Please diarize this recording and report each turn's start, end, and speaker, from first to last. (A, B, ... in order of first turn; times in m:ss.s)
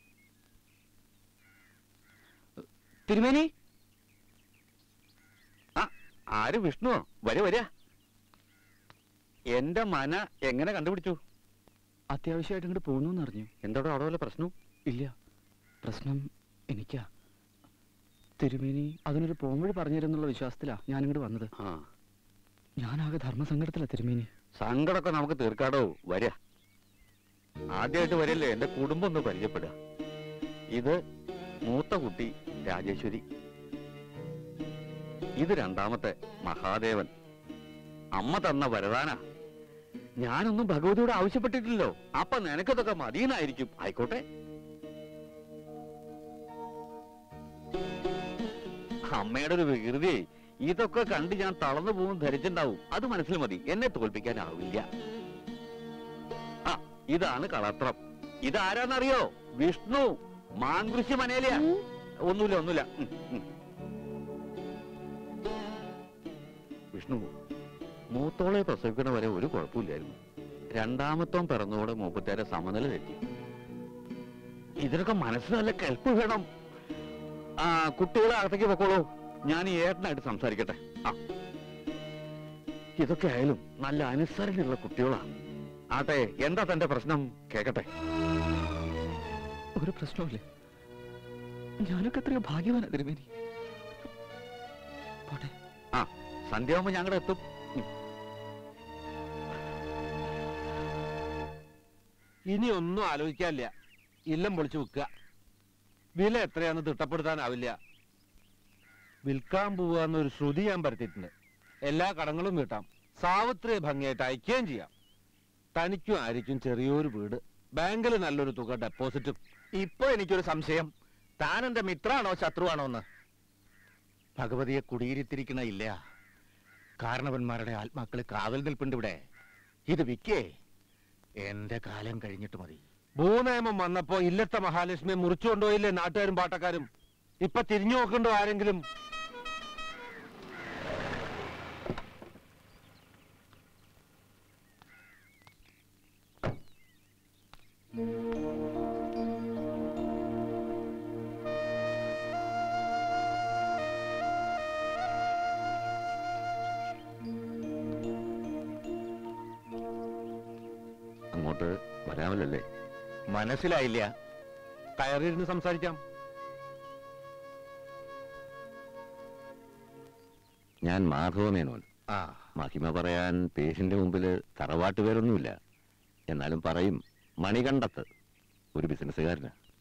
0:03.1-0:03.5 A
0:05.8-0:07.7 B
0:09.5-0:11.2 B
0:12.1-0:13.5 A
0:13.6-0:14.5 B
0:15.8-0:17.1 A
0:18.4-0:21.5 A
0:21.6-0:21.8 B
0:22.8-0:24.3 A
0:24.6-0:26.3 B
0:27.8-0:29.7 B
0:31.7-0:33.2 B
0:35.4-0:37.1 B
0:38.2-0:39.2 B
0:40.2-0:44.2 B
0:49.1-0:54.8 B
0:56.7-1:01.7 B
1:02.3-1:03.4 B
1:06.9-1:07.3 B
1:08.1-1:10.2 B
1:10.8-1:13.2 B
1:14.8-1:16.4 B
1:17.6-1:21.1 B
1:23.0-1:25.2 B
1:25.9-1:27.8 B
1:29.8-1:30.4 A
1:31.8-1:33.2 A
1:35.3-1:35.5 A
1:35.9-1:37.8 B
1:42.5-1:43.7 C
1:44.3-1:45.1 C
1:46.2-1:47.7 C
1:49.2-1:51.3 C
1:51.9-1:54.9 C
1:55.8-1:59.4 C
1:59.7-2:00.9 D
2:01.4-2:03.0 D
2:04.4-2:05.9 D
2:07.0-2:09.2 D
2:09.9-2:10.4 D
2:11.4-2:12.8 D
2:13.2-2:16.8 C
2:17.4-2:18.8 C
2:41.3-2:42.6 E
2:43.3-2:44.1 D
2:45.0-2:46.0 C
2:50.8-2:51.8 E
2:52.1-2:52.4 D
2:52.6-2:55.5 E
2:56.3-2:58.0 E
2:58.7-2:59.5 E